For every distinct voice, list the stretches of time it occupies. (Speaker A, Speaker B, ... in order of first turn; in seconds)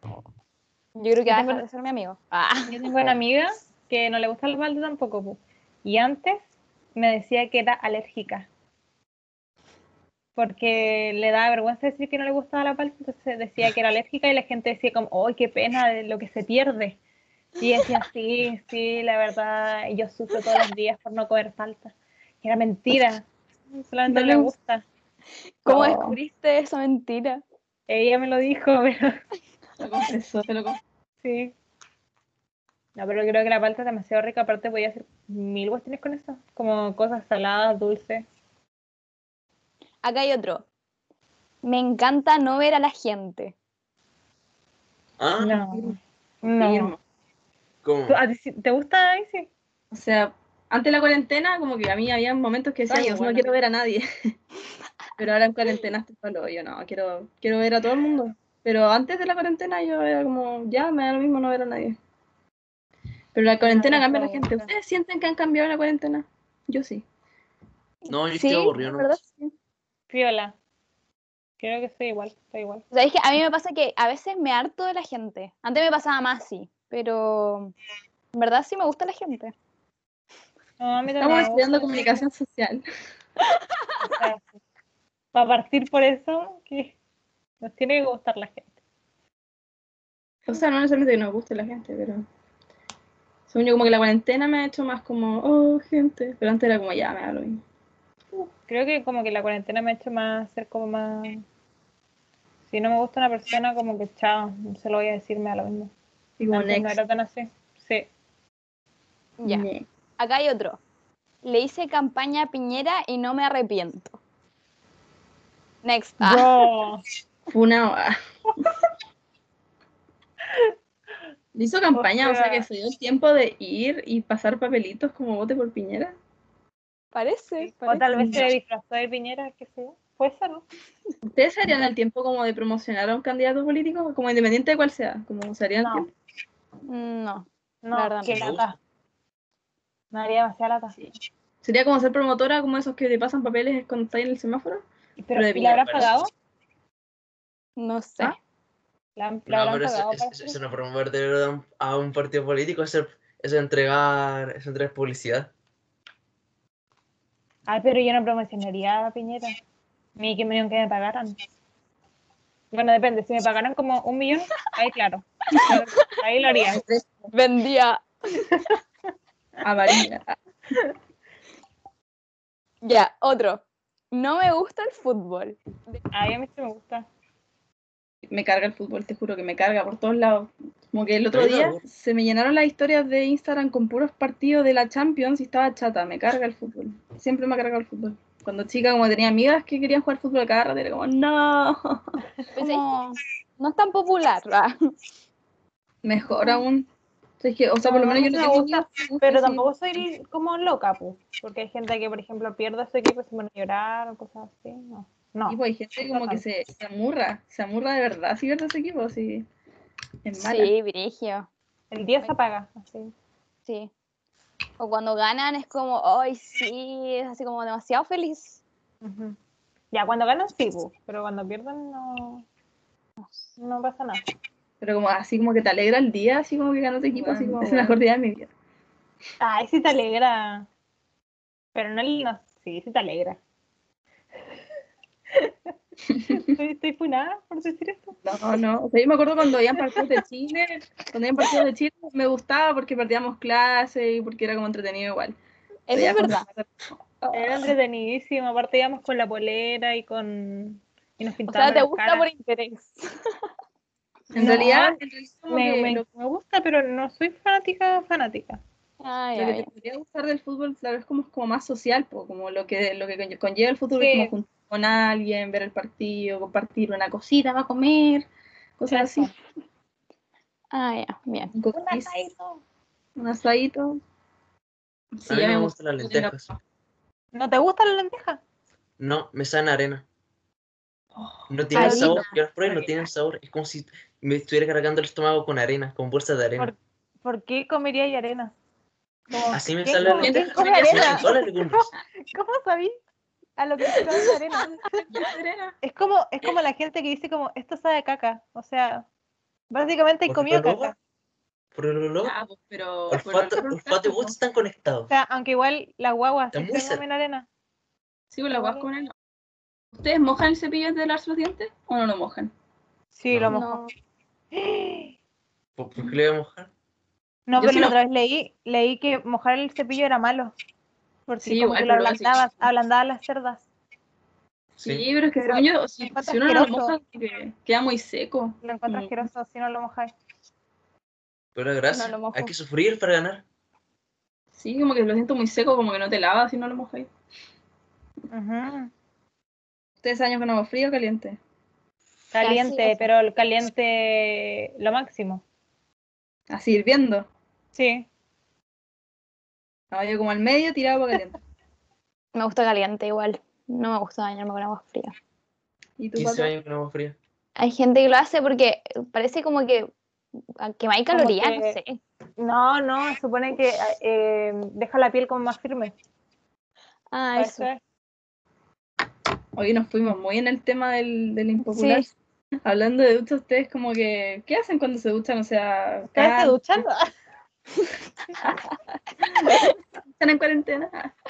Speaker A: 1.0-2.5, 40.0-40.6, 41.6-43.5, 45.2-45.6, 47.8-48.2, 68.1-69.2, 110.4-110.7, 111.4-114.2, 115.8-116.1, 138.0-138.7, 147.8-148.3, 149.5-155.5, 181.3-181.8, 192.6-193.0, 193.6-194.5, 210.5-211.4, 214.8-216.8, 218.1-218.6, 251.5-252.4, 259.0-259.6, 275.3-276.5, 279.0-280.0, 281.5-286.7, 289.5-291.9, 300.3-300.9, 301.7-302.3, 303.1-305.1, 306.5-307.0, 313.3-313.8, 315.8-316.7, 331.5-333.4, 353.1-353.9, 356.1-357.2
Speaker B: 1.3-1.6, 2.7-6.4, 6.9-8.5, 10.3-17.0, 17.6-24.8, 25.7-26.1, 27.9-29.1, 31.2-31.5, 32.9-38.2, 45.4-46.9, 48.1-49.5, 63.6-64.7, 70.1-70.5, 71.6-72.8, 80.8-82.2, 84.0-84.6, 85.3-86.9, 87.6-88.7, 98.3-101.4, 102.7-105.9, 106.5-108.1, 116.2-117.0, 121.9-122.6, 127.7-130.7, 137.8-138.8, 140.1-141.0, 145.2-146.3, 149.2-150.6, 157.7-159.6, 160.2-161.4, 162.7-166.8, 176.1-177.1, 196.3-196.6, 197.8-206.4, 211.9-213.1, 219.0-219.3, 219.9-222.4, 223.6-224.3, 227.1-228.0, 229.4-230.7, 231.7-233.4, 235.3-235.7, 236.2-238.2, 239.8-240.1, 247.3-252.3, 254.3-255.0, 255.5-258.6, 263.9-264.3, 268.9-269.3, 271.7-272.6, 277.3-278.4, 281.8-282.2, 286.6-288.5, 289.3-292.9, 293.6-295.1, 295.8-299.1, 299.7-301.0, 305.1-307.5, 308.5-308.9, 313.1-313.9, 314.5-315.1, 317.5-320.5, 321.3-323.6, 325.4-326.9, 328.6-330.1, 338.3-338.9, 342.3-345.4, 347.7-348.1, 361.1-361.8, 362.4-365.9, 367.4-367.8, 376.1-377.1
Speaker C: 1.4-2.3, 25.7-27.4, 41.7-43.5, 68.3-69.4, 73.0-77.7, 78.3-79.5, 110.2-110.8, 111.6-114.0, 116.1-116.4, 127.3-128.0, 136.9-137.4, 167.3-168.0, 172.8-173.6, 174.1-176.0, 192.8-193.1, 193.7-194.6, 210.5-211.4, 214.8-216.6, 217.3-218.6, 245.9-246.4, 251.8-253.0, 259.1-259.6, 270.8-271.5, 313.5-313.9, 331.9-332.5, 342.7-343.0, 352.4-355.0, 357.6-359.8, 360.8-362.0, 367.1-367.6
Speaker D: 24.1-24.5, 29.8-30.8, 45.7-47.0, 49.9-54.0, 55.2-62.0, 63.3-67.0, 81.2-82.8, 90.5-92.2, 93.5-97.6, 106.4-107.0, 109.5-109.8, 117.5-118.2, 121.5-126.1, 128.1-128.5, 131.2-136.1, 141.6-146.1, 166.7-167.3, 169.6-170.4, 178.3-192.0, 196.0-196.9, 197.4-199.6, 205.5-209.5, 210.2-210.7, 224.8-228.5, 238.2-245.4, 245.9-247.7, 254.3-256.0, 259.3-269.3, 271.5-272.2, 273.1-274.0, 275.2-276.6, 281.1-283.0, 290.0-291.3, 294.8-295.8, 302.2-304.3, 308.3-309.1, 309.9-312.5, 317.6-317.9, 321.4-322.6, 324.8-329.1, 334.5-337.1, 340.0-341.4, 346.5-347.3, 349.9-351.4, 356.0-356.5, 369.6-372.1, 372.6-376.8, 380.0-381.1